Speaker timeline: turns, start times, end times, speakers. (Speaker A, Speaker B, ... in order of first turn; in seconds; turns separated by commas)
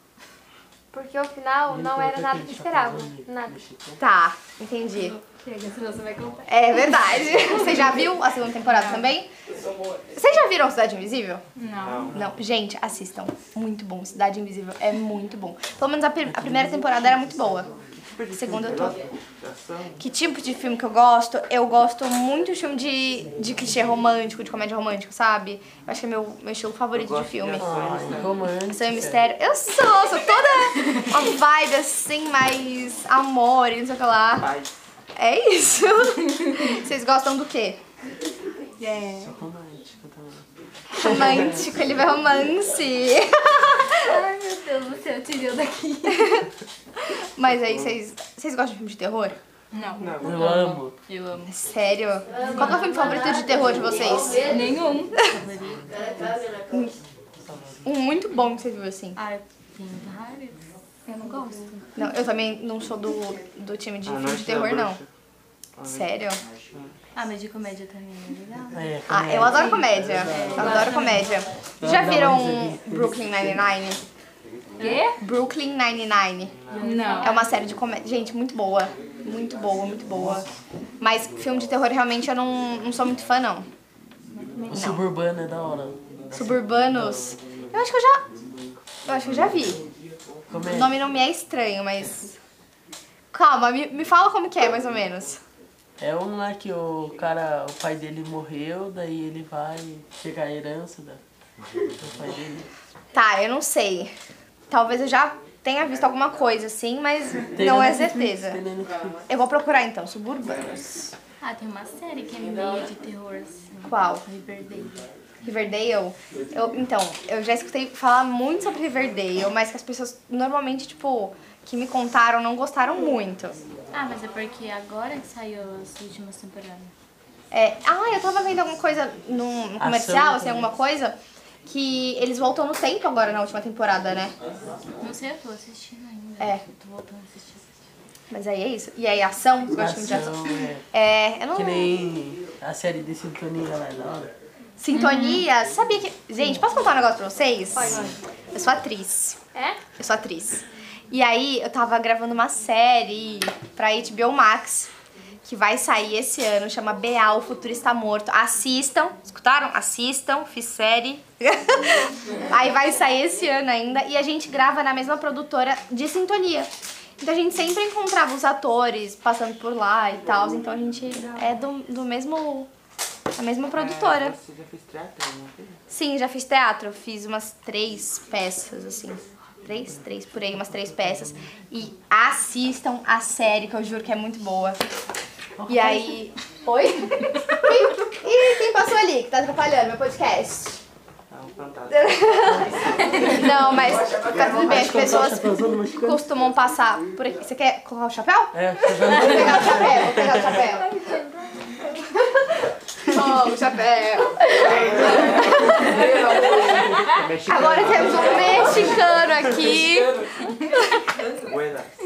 Speaker A: 0.9-3.5, Speaker B: 1.7-4.0, Speaker C: 4.0-5.2, Speaker D: 5.3-6.5, Speaker C: 6.5-9.3, Speaker D: 8.7-9.1, Speaker C: 10.1-11.4, Speaker D: 11.6-12.1, Speaker E: 11.8-12.2, Speaker C: 12.1-17.7, Speaker E: 17.9-20.0, Speaker C: 18.3-19.0, Speaker C: 20.0-27.7, Speaker E: 26.9-28.4, Speaker B: 27.6-29.2, Speaker C: 28.7-34.5, Speaker E: 34.4-34.7, Speaker C: 35.1-37.8, Speaker D: 38.8-39.3, Speaker B: 39.2-40.5, Speaker C: 40.9-44.1, Speaker D: 44.0-46.4, Speaker C: 46.1-46.4, Speaker C: 47.1-49.4, Speaker D: 49.7-51.5, Speaker E: 50.0-50.5, Speaker B: 50.2-51.0, Speaker C: 51.5-54.5, Speaker A: 52.3-54.6, Speaker D: 52.3-56.3, Speaker C: 56.7-56.9, Speaker C: 57.8-59.2, Speaker D: 59.1-61.8, Speaker C: 62.0-65.0, Speaker E: 64.0-65.1, Speaker E: 65.8-66.9, Speaker C: 65.9-66.4, Speaker D: 67.1-68.8, Speaker B: 68.7-71.0, Speaker C: 69.1-74.0, Speaker D: 69.5-71.4, Speaker B: 71.8-73.3, Speaker D: 74.8-75.2, Speaker C: 74.8-76.5, Speaker E: 76.5-77.0, Speaker D: 76.7-77.5, Speaker A: 76.9-77.3, Speaker C: 77.2-80.5, Speaker C: 81.0-83.7, Speaker D: 84.3-84.7, Speaker B: 84.7-87.0, Speaker C: 84.7-85.0, Speaker C: 86.3-88.2, Speaker C: 89.0-89.8, Speaker B: 90.5-90.9, Speaker C: 90.6-92.3, Speaker C: 93.3-95.4, Speaker B: 96.0-101.2, Speaker B: 102.0-102.7, Speaker C: 103.1-104.1, Speaker C: 104.7-108.6, Speaker B: 107.5-109.2, Speaker C: 109.3-111.1, Speaker D: 111.4-115.1, Speaker C: 113.9-114.2, Speaker C: 115.4-123.6, Speaker D: 123.9-126.9, Speaker C: 127.5-134.3, Speaker B: 129.8-130.7, Speaker D: 135.0-137.7, Speaker C: 136.4-136.6, Speaker C: 138.3-142.0, Speaker B: 139.7-140.8, Speaker B: 141.5-144.3, Speaker C: 144.8-149.4, Speaker D: 144.9-145.4, Speaker A: 147.7-148.1, Speaker D: 147.8-148.1, Speaker C: 150.0-154.9, Speaker C: 155.4-172.7, Speaker C: 173.3-174.3, Speaker E: 173.7-175.8, Speaker C: 175.9-184.8, Speaker B: 185.6-186.2, Speaker C: 185.7-190.8, Speaker E: 191.3-193.0, Speaker C: 191.9-200.9, Speaker B: 194.4-196.2, Speaker B: 198.5-200.6, Speaker C: 203.1-206.9, Speaker E: 207.1-209.1, Speaker C: 207.5-210.1, Speaker C: 210.7-211.0, Speaker E: 211.4-211.9